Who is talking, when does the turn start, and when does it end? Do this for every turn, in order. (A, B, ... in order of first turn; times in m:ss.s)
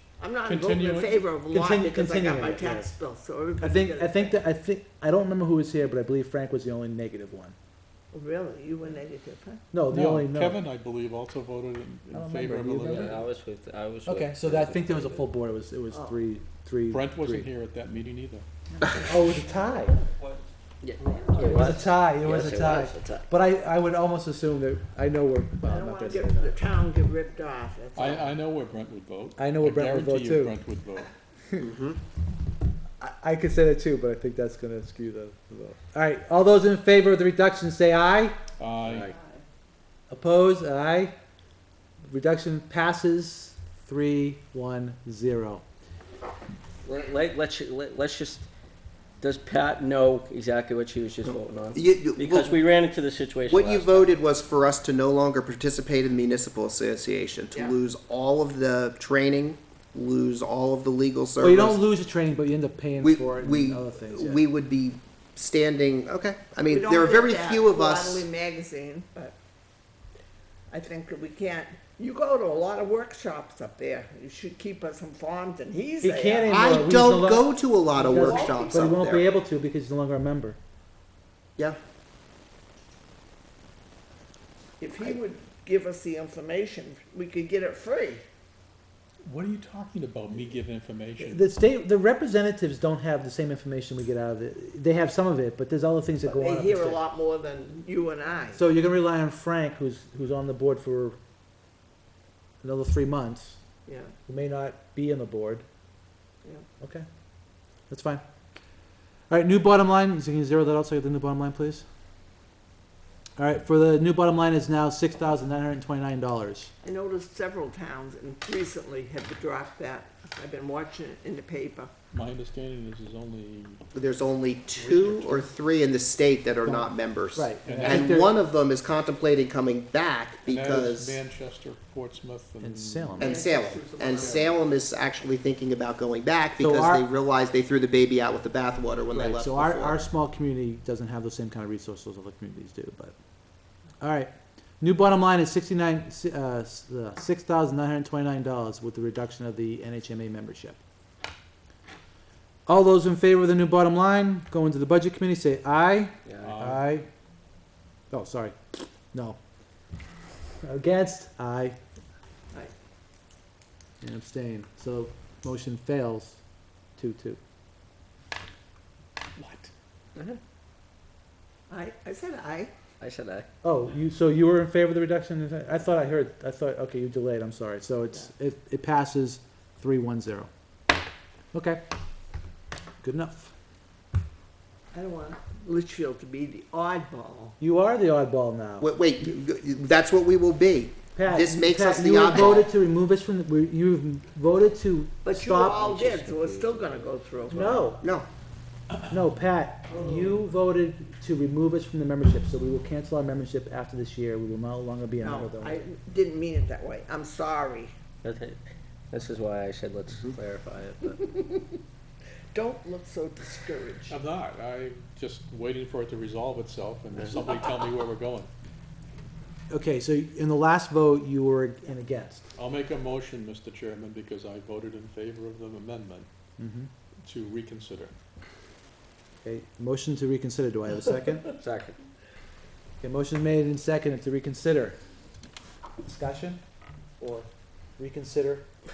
0:00.2-0:04.4 A
0:00.4-0:01.2 B
0:01.5-0:02.9 C
0:03.6-0:07.6 C
0:08.1-0:09.6 A
0:09.7-0:10.6 C
0:09.9-0:13.2 B
0:12.1-0:13.2 C
0:12.8-0:15.3 D
0:14.0-0:17.5 C
0:15.9-0:16.2 A
0:16.9-0:18.4 B
0:18.8-0:20.0 C
0:20.1-0:23.3 D
0:21.0-0:21.8 B
0:21.4-0:26.6 C
0:25.6-0:28.4 A
0:28.0-0:31.1 B
0:29.4-0:30.6 C
0:31.6-0:32.0 E
0:33.0-0:38.4 C
0:38.6-0:39.1 B
0:38.8-0:39.1 D
0:39.0-0:39.4 A
0:40.1-0:41.1 C
0:42.1-0:45.6 C
0:46.8-0:48.5 D
0:49.2-0:54.2 D
0:51.2-0:52.6 E
0:53.5-1:01.8 E
0:57.5-0:57.8 A
1:01.4-1:04.4 C
1:03.0-1:08.3 E
1:06.7-1:09.4 A
1:10.7-1:16.5 A
1:16.0-1:17.5 C
1:16.5-1:19.2 E
1:17.9-1:19.0 A
1:18.0-1:20.6 C
1:24.8-1:28.2 A
1:29.2-1:31.4 B
1:31.2-1:37.0 C
1:36.2-1:38.6 A
1:38.5-1:41.2 C
1:42.6-1:43.6 C
1:43.9-1:44.2 A
1:44.3-1:45.6 C
1:46.8-1:47.1 C
1:47.9-1:48.2 C
1:49.3-1:51.8 C
1:53.4-1:56.7 C
1:56.8-2:01.9 A
2:02.1-2:03.8 B
2:03.9-2:11.2 E
2:04.8-2:05.4 C
2:06.7-2:08.4 C
2:07.6-2:08.1 B
2:10.4-2:13.3 B
2:12.6-2:13.3 C
2:13.2-2:14.8 A
2:13.2-2:20.0 E
2:16.6-2:17.0 C
2:19.1-2:23.2 C
2:24.0-2:30.8 C
2:32.7-2:37.1 C
2:36.2-2:36.5 D
2:36.4-2:36.9 B
2:38.1-2:39.4 C
2:40.6-2:41.8 C
2:44.0-2:46.4 C
2:47.0-2:47.4 C
2:49.4-2:49.7 B
2:51.7-2:52.7 A
2:53.0-2:53.5 D
2:53.6-3:00.5 C
3:01.5-3:01.8 C
3:03.0-3:03.5 C
3:04.9-3:07.6 A
3:07.6-3:08.9 C
3:08.8-3:12.7 E
3:11.1-3:15.9 C
3:15.2-3:18.0 A
3:15.7-3:17.2 D
3:17.5-3:18.0 C
3:18.0-3:18.3 E
3:19.1-3:25.8 C
3:19.9-3:20.3 A
3:25.2-3:27.9 A
3:28.2-3:28.6 D
3:29.1-3:31.2 D
3:31.0-3:31.8 A
3:32.5-3:34.2 A
3:34.1-3:38.5 B
3:39.7-3:42.4 C
3:42.6-3:46.3 B
3:46.6-3:46.9 C
3:47.2-3:48.1 B
3:49.4-3:51.5 C
3:51.5-3:52.0 D
3:53.0-3:55.0 C
3:56.0-3:56.6 C
3:57.2-3:58.7 C